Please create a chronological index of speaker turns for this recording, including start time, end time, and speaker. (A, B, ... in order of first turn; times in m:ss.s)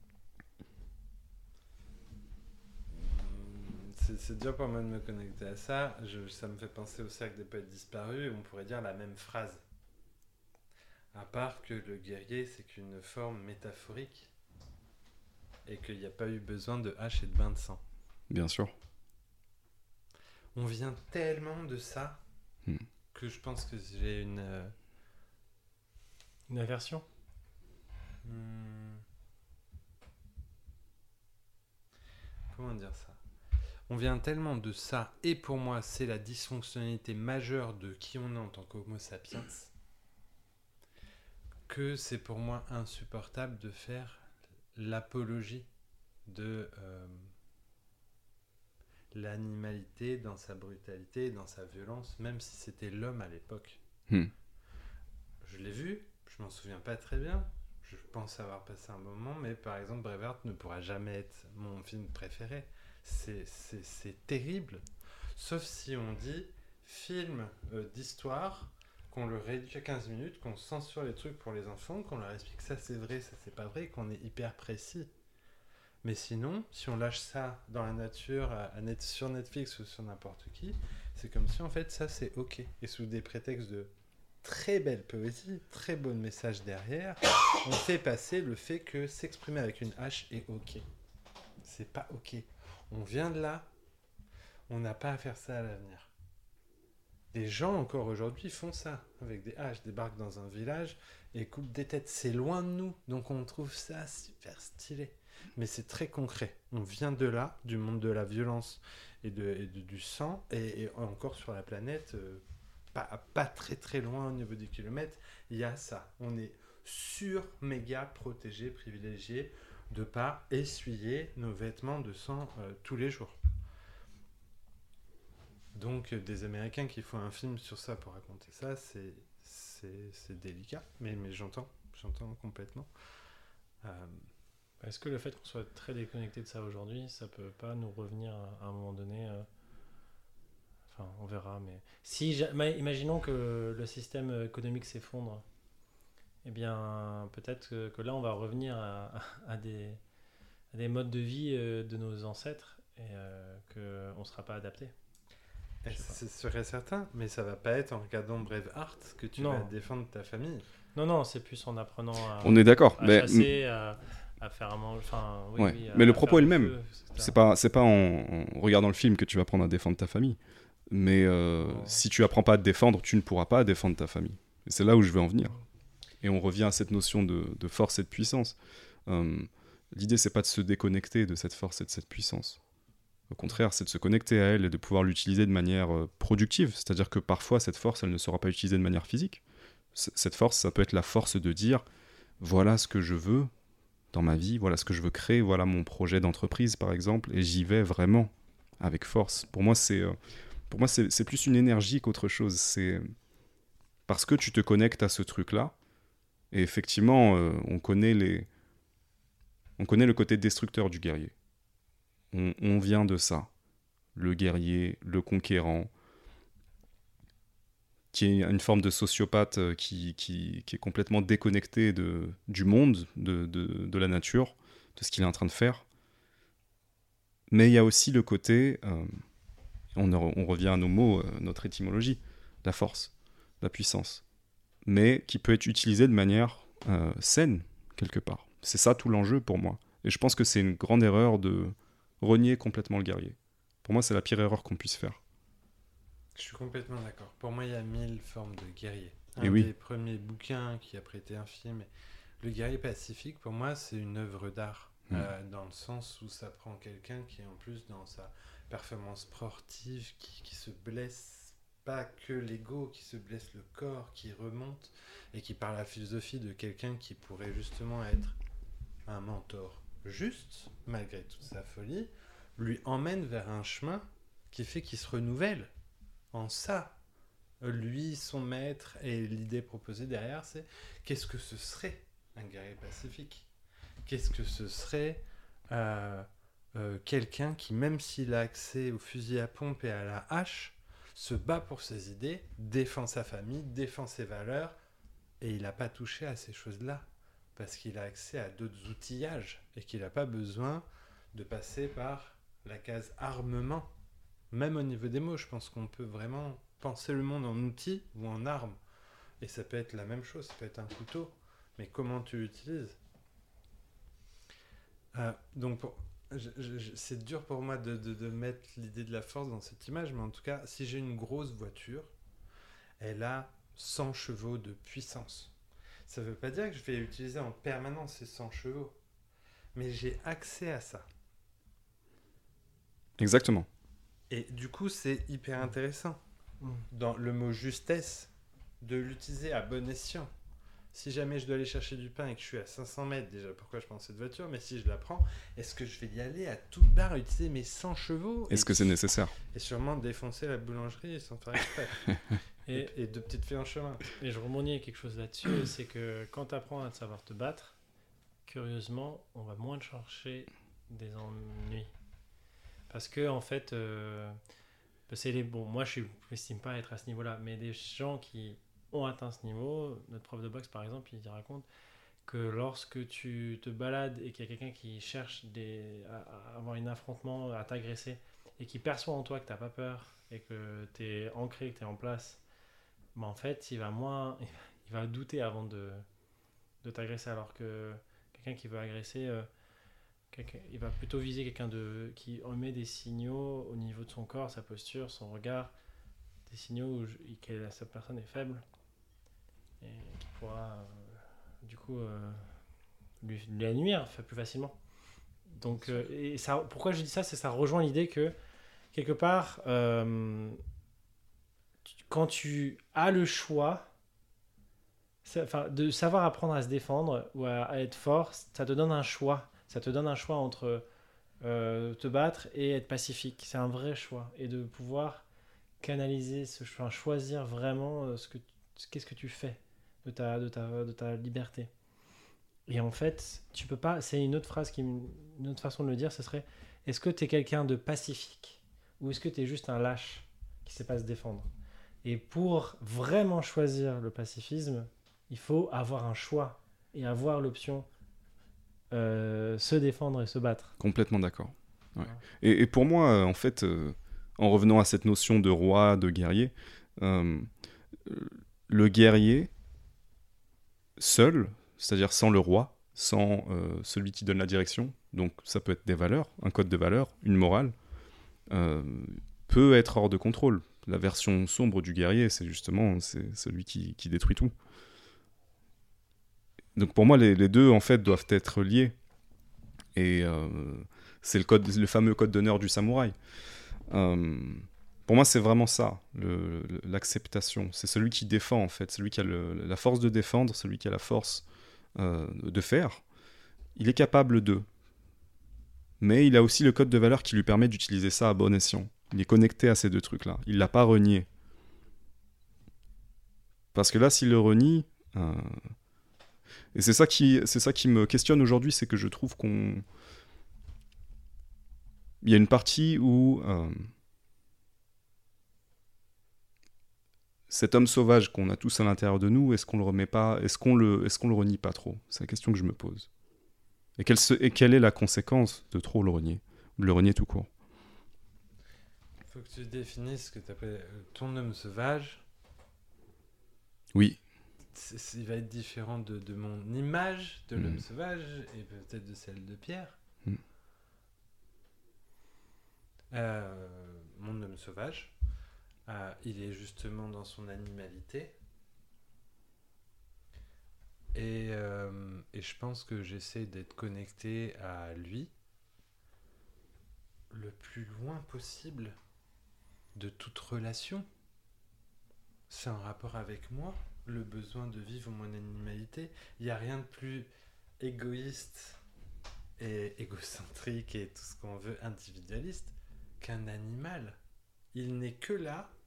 0:02.9-0:09.6 A
0:11.1-0:14.3 A
0:15.6-0:17.8 A
0:18.3-0:18.7 B
0:20.5-0:22.2 A
0:23.1-0:24.7 A
0:26.5-0:27.0 C
0:28.2-0:29.0 A
0:32.5-0:33.2 A
0:33.9-0:39.7 A
0:41.7-0:45.7 A
0:46.3-0:47.3 A
0:49.1-0:53.8 A
0:55.4-1:04.8 A
1:05.4-1:15.1 A
1:16.0-1:23.9 A
1:24.4-1:30.8 A
1:31.6-1:33.7 A
1:34.7-1:36.1 A
1:37.3-1:52.4 A
1:52.9-2:03.4 A
2:05.7-2:12.9 A
2:13.8-2:14.2 A
2:14.8-2:19.5 C
2:20.9-2:25.4 C
2:26.4-2:30.0 C
2:30.7-2:34.9 C
2:35.8-2:40.6 A
2:35.9-2:36.2 C
2:39.4-2:39.7 C
2:40.9-2:47.3 C
2:42.4-2:43.5 B
2:45.6-2:50.4 B
2:50.9-2:55.6 B
2:51.6-2:52.0 C
2:56.2-2:58.6 B
2:59.1-3:02.6 B
3:03.3-3:09.4 B
3:09.9-3:11.8 B
3:12.4-3:13.5 B
3:14.1-3:20.2 B
3:20.7-3:23.1 B
3:24.1-3:25.7 B
3:26.5-3:28.5 B
3:29.8-3:31.3 B
3:32.3-3:33.5 B
3:34.1-3:35.9 B
3:38.1-3:45.8 B
3:47.5-3:49.1 B
3:49.9-3:54.2 B
3:54.8-4:05.2 B
4:06.3-4:11.9 A
4:09.4-4:09.7 B
4:12.4-4:28.4 A
4:29.0-4:35.7 A
4:36.3-4:36.9 A
4:37.6-4:43.5 A
4:44.0-4:54.8 A
4:55.4-4:57.0 A
4:57.6-5:03.9 A
5:04.5-5:08.8 A
5:09.4-5:13.0 A
5:15.1-5:22.1 A
5:23.0-5:25.5 A
5:26.1-5:29.0 A
5:29.7-5:31.0 A
5:33.2-5:33.7 B
5:34.3-5:36.2 A
5:36.6-5:36.8 C
5:36.9-5:38.3 A
5:38.8-5:40.3 A
5:40.9-5:49.0 A
5:48.5-5:49.3 B
5:49.5-5:52.2 A
5:52.7-5:54.1 A
5:54.2-5:57.8 C
5:58.4-6:01.9 C
6:02.9-6:04.4 C
6:05.1-6:11.6 C
6:12.2-6:22.4 C
6:23.1-6:26.0 C
6:26.8-6:29.5 C
6:30.3-6:35.7 C
6:36.5-6:38.6 C
6:39.8-6:42.5 C
6:43.2-6:44.8 C
6:45.5-6:48.4 C
6:48.9-6:50.6 C
6:51.9-6:53.9 C
6:55.2-7:00.8 C
7:01.4-7:05.2 C
7:05.8-7:11.7 C
7:12.7-7:21.5 C
7:22.0-7:27.9 C
7:28.9-7:30.7 C
7:30.8-7:37.5 B
7:38.0-7:39.5 B
7:41.0-7:47.7 B
7:48.5-7:54.5 B
7:56.8-7:58.9 B
7:59.9-8:03.1 B
8:03.9-8:11.4 B
8:12.0-8:13.0 B
8:13.8-8:14.6 B
8:16.0-8:21.3 B
8:23.7-8:25.6 B
8:26.7-8:29.8 B
8:32.2-8:33.9 B
8:37.5-8:43.1 B
8:44.0-8:47.5 B
8:49.3-8:52.2 A
8:53.9-8:54.2 B
8:54.7-9:00.0 A
8:57.6-8:57.8 B
9:03.1-9:05.1 A
9:05.9-9:08.3 A
9:11.1-9:15.3 A
9:17.3-9:19.0 A
9:19.9-9:21.0 A
9:22.5-9:28.8 A
9:29.6-9:34.2 A
9:34.7-9:35.7 A